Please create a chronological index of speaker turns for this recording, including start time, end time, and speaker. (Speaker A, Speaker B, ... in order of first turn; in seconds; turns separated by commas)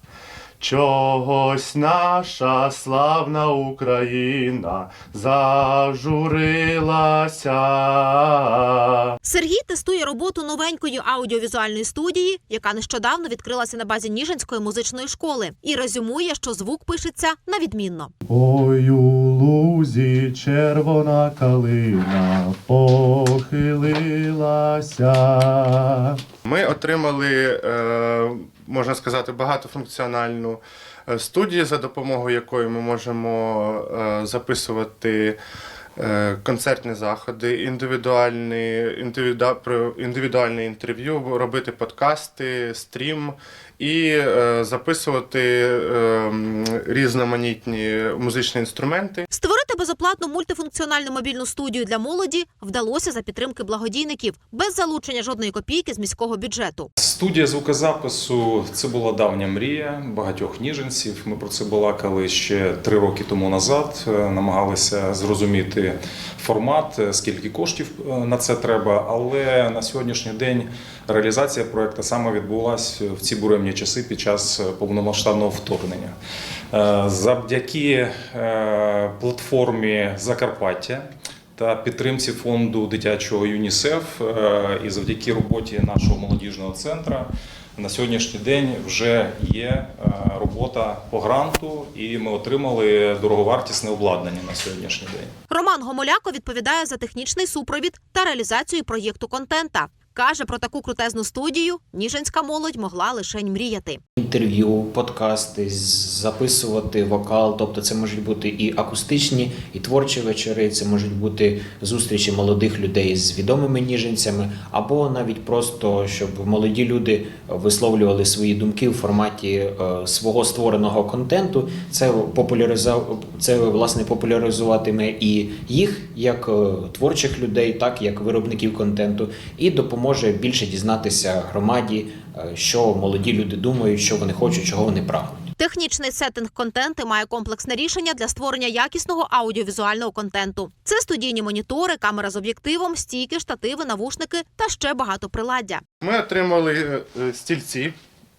Speaker A: 0.6-9.1, Speaker B: 9.2-18.1, Speaker A: 18.2-35.4, Speaker A: 36.0-49.3, Speaker B: 49.3-56.9, Speaker C: 57.0-76.1, Speaker C: 76.7-81.0, Speaker C: 81.6-95.3, Speaker B: 95.5-104.0, Speaker D: 104.2-135.5, Speaker B: 135.6-145.8, Speaker A: 146.0-147.9